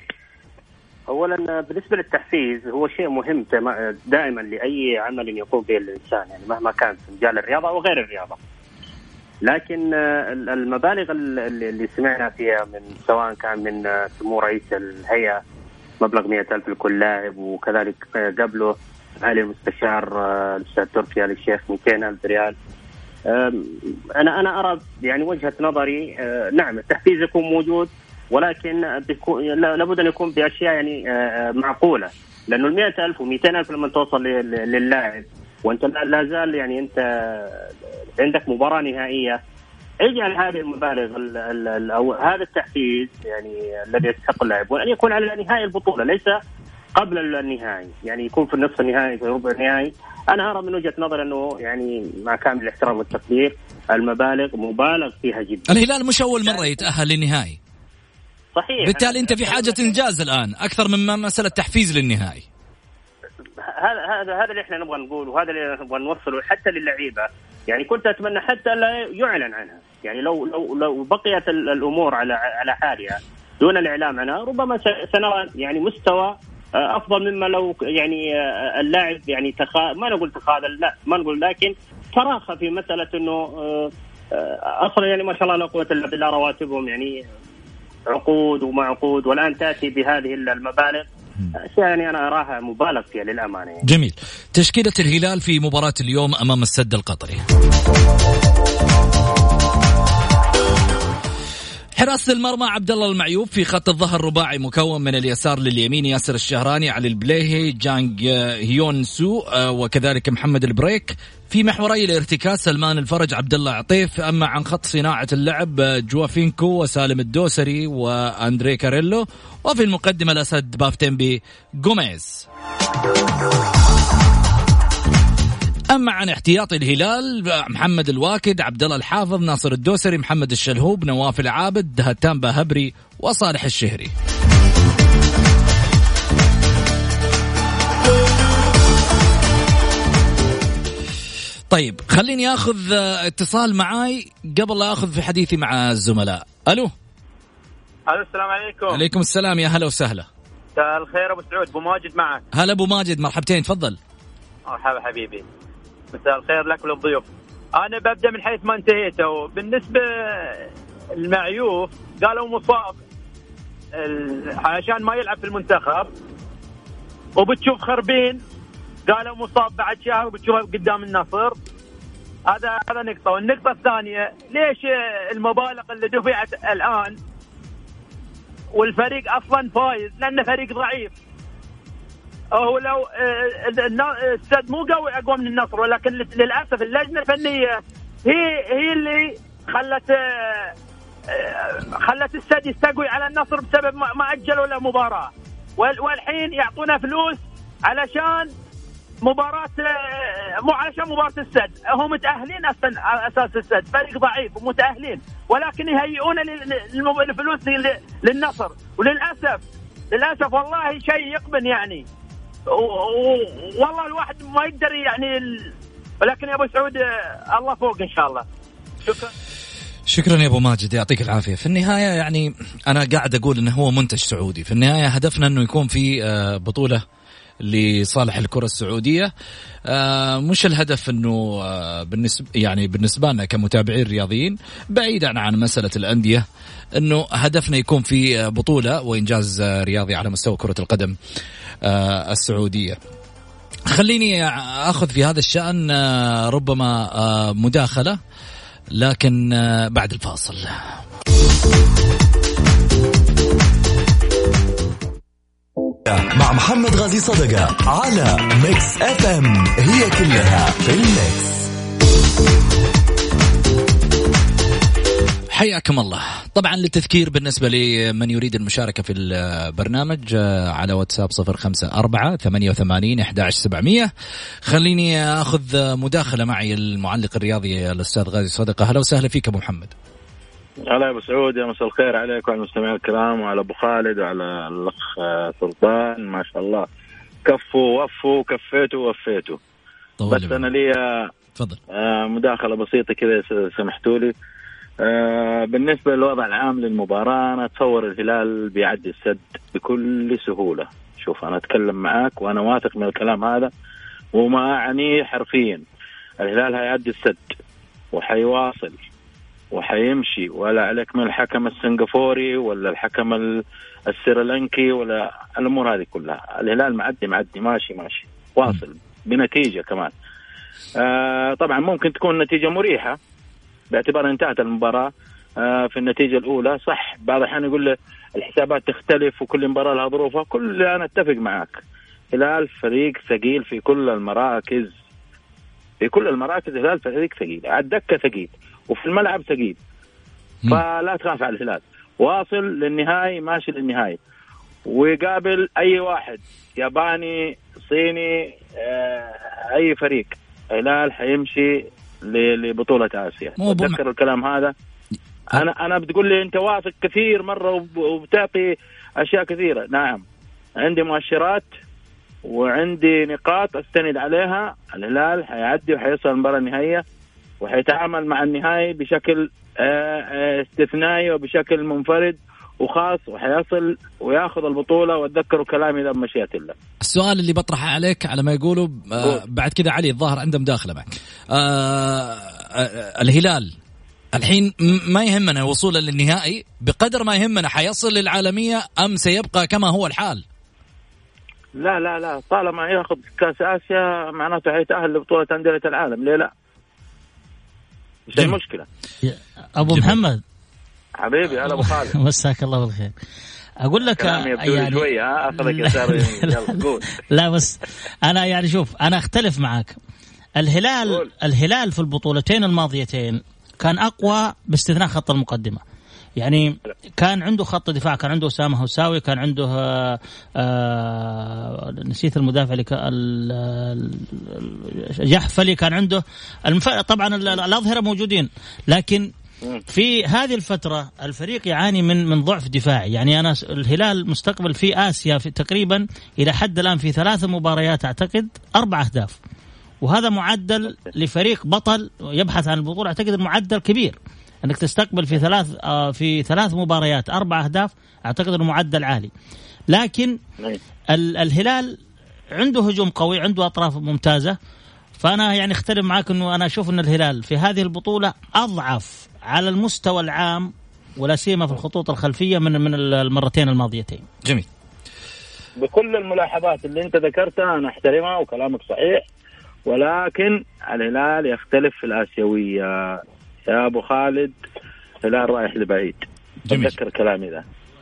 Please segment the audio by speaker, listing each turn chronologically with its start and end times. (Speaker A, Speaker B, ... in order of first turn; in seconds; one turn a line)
Speaker A: 1.1-8.4
Speaker A: 9.4-15.4
Speaker A: 16.0-22.6
Speaker A: 23.2-39.4
Speaker A: 40.0-46.4
Speaker A: 47.0-55.7
Speaker B: 55.7-57.6
Speaker A: 56.5-56.8
Speaker A: 58.5-59.9
Speaker B: 58.8-62.4
Speaker A: 63.6-87.2
Speaker A: 88.1-91.0
Speaker A: 91.6-93.8
Speaker B: 93.8-97.4
Speaker B: 102.0-122.5
Speaker B: 125.9-134.1
Speaker B: 141.7-146.9
Speaker C: 148.1-149.0
Speaker B: 148.9-150.3
Speaker C: 150.8-152.4
Speaker B: 152.5-154.0
Speaker C: 154.7-155.4
Speaker C: 156.1-163.0
Speaker C: 163.9-166.1
Speaker C: 167.4-168.4
Speaker C: 169.1-171.6
Speaker C: 172.5-177.2
Speaker C: 178.8-181.1
Speaker C: 182.5-190.7
Speaker C: 191.3-198.5
Speaker C: 199.2-212.0
Speaker C: 212.7-218.4
Speaker C: 219.0-219.3
Speaker B: 220.1-227.0
Speaker B: 227.6-229.3
Speaker B: 229.9-236.4
Speaker B: 237.0-241.1
Speaker B: 241.8-243.0
Speaker B: 243.9-248.2
Speaker B: 248.9-250.7
Speaker D: 256.0-261.7
Speaker B: 265.5-274.1
Speaker B: 274.7-279.9
Speaker E: 280.9-286.9
Speaker E: 287.4-289.6
Speaker B: 290.2-290.7
Speaker E: 290.3-291.3
Speaker B: 291.6-291.8
Speaker E: 291.9-294.3
Speaker E: 295.0-303.7
Speaker E: 304.3-305.8
Speaker E: 306.4-307.5
Speaker E: 308.1-309.0
Speaker E: 309.7-320.1
Speaker E: 321.0-323.2
Speaker E: 323.9-331.8
Speaker E: 332.3-334.9
Speaker E: 336.0-339.8
Speaker E: 340.7-344.2
Speaker E: 344.9-354.7
Speaker B: 353.6-354.0
Speaker E: 355.5-360.2
Speaker E: 360.8-361.7
Speaker E: 362.4-367.0
Speaker E: 367.6-376.7
Speaker B: 377.0-383.7
Speaker B: 384.3-390.4
Speaker E: 391.8-396.5
Speaker E: 398.3-398.9
Speaker F: 399.2-400.4
Speaker B: 399.8-400.2
Speaker E: 401.2-402.1
Speaker F: 401.6-403.1
Speaker F: 403.8-409.9
Speaker E: 404.0-407.0
Speaker F: 410.6-415.8
Speaker F: 416.4-429.3
Speaker F: 429.9-439.4
Speaker F: 440.0-449.3
Speaker F: 449.9-450.4
Speaker F: 451.1-452.0
Speaker F: 452.6-454.6
Speaker F: 455.2-464.2
Speaker E: 465.8-469.2
Speaker E: 469.9-474.5
Speaker E: 475.2-477.6
Speaker B: 476.7-476.9